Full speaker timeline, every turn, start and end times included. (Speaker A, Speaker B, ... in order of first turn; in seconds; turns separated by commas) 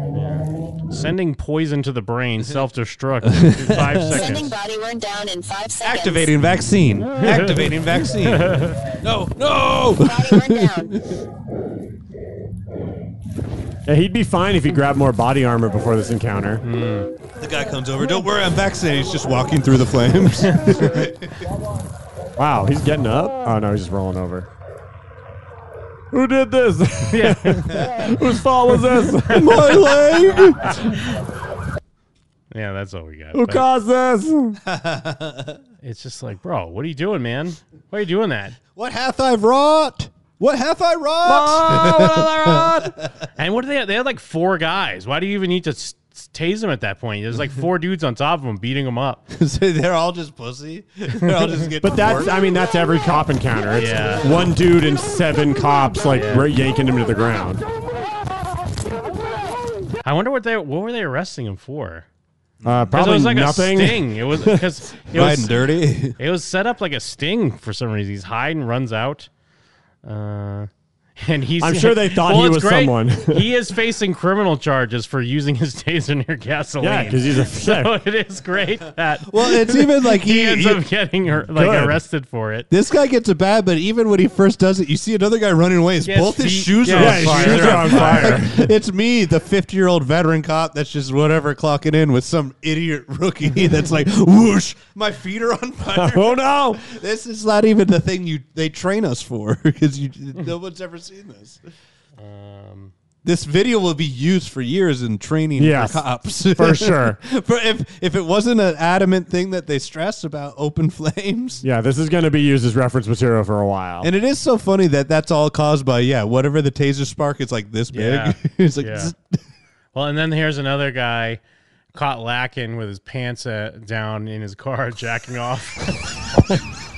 Speaker A: 0.9-4.5, Speaker B: 3.3-4.3, Speaker C: 4.1-6.3, Speaker B: 5.8-11.2, Speaker A: 7.2-7.8, Speaker A: 8.3-8.8, Speaker C: 10.0-11.0, Speaker D: 13.9-16.6, Speaker A: 16.6-17.1, Speaker B: 17.4-21.4, Speaker D: 22.4-24.5, Speaker D: 26.1-29.9, Speaker A: 27.1-27.8, Speaker B: 27.7-28.1, Speaker A: 29.0-30.1, Speaker B: 29.3-30.8, Speaker A: 32.5-33.6, Speaker D: 33.3-34.6, Speaker B: 34.7-35.6, Speaker A: 35.8-38.6, Speaker B: 38.7-42.9, Speaker D: 41.2-43.0, Speaker A: 43.4-49.2, Speaker B: 49.3-52.5, Speaker D: 51.8-57.6, Speaker A: 53.8-54.3, Speaker A: 56.1-56.5, Speaker A: 60.0-62.1, Speaker B: 62.6-63.9, Speaker D: 62.6-64.6, Speaker A: 62.9-65.5, Speaker B: 65.1-66.2, Speaker A: 66.2-69.3, Speaker A: 70.0-82.7, Speaker D: 71.6-73.5, Speaker D: 76.8-78.0, Speaker B: 79.3-80.8, Speaker D: 81.5-82.0, Speaker B: 82.7-101.6, Speaker A: 86.0-88.4, Speaker D: 86.9-88.7, Speaker D: 95.9-96.8, Speaker A: 102.2-102.9, Speaker B: 103.2-111.6, Speaker D: 105.6-107.2, Speaker D: 111.6-114.1, Speaker B: 114.0-119.4, Speaker A: 117.9-119.1, Speaker A: 119.9-121.4, Speaker A: 121.9-126.0